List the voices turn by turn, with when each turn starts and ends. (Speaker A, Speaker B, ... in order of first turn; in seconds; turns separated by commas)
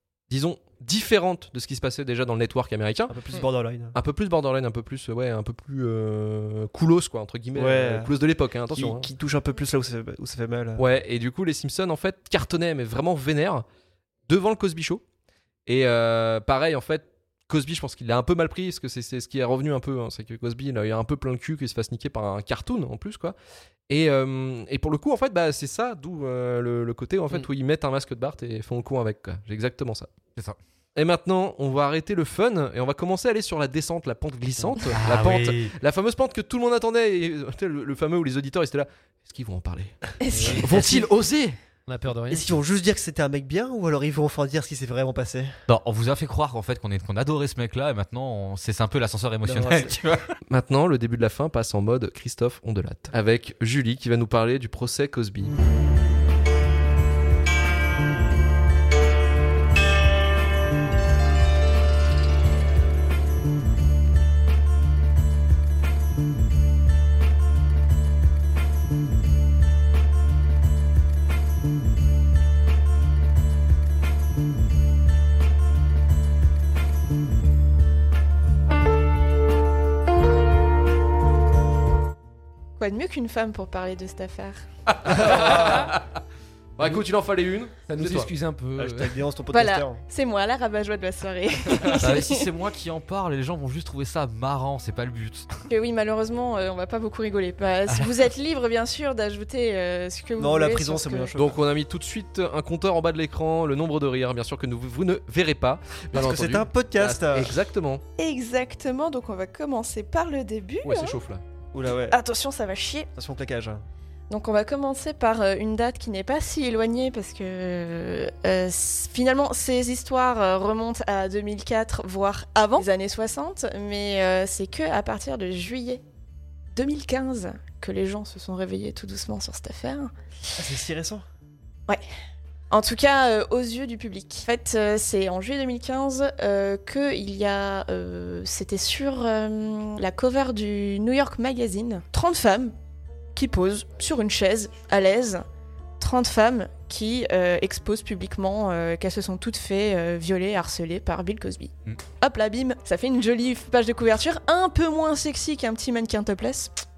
Speaker A: 0.3-3.1, Speaker B: 3.1-4.0, Speaker A: 3.9-9.1, Speaker B: 7.5-8.1, Speaker B: 8.7-10.8, Speaker A: 10.8-13.7, Speaker A: 14.3-15.0, Speaker A: 15.7-23.4, Speaker A: 23.9-30.1, Speaker A: 30.9-41.1, Speaker C: 34.9-35.7, Speaker D: 40.2-40.6, Speaker E: 40.3-41.0, Speaker C: 40.6-41.5, Speaker E: 41.9-42.5, Speaker B: 42.3-45.6, Speaker C: 45.7-50.3, Speaker B: 49.4-49.9, Speaker A: 50.5-55.5, Speaker D: 82.8-84.6, Speaker A: 85.0-85.9, Speaker C: 85.2-86.0, Speaker A: 86.8-88.3, Speaker E: 87.9-89.2, Speaker B: 88.8-90.0, Speaker D: 89.5-92.5, Speaker A: 91.7-92.0, Speaker C: 91.9-95.6, Speaker D: 95.7-101.3, Speaker C: 97.9-98.1, Speaker B: 100.4-101.6, Speaker A: 101.3-108.0, Speaker B: 106.1-107.6, Speaker D: 108.2-111.2, Speaker A: 110.8-111.4, Speaker B: 111.7-112.2, Speaker D: 112.1-113.1, Speaker B: 113.2-113.8, Speaker D: 114.3-126.0, Speaker D: 126.7-130.1, Speaker B: 130.5-131.2, Speaker D: 132.7-142.7, Speaker D: 143.3-145.4, Speaker D: 146.0-156.7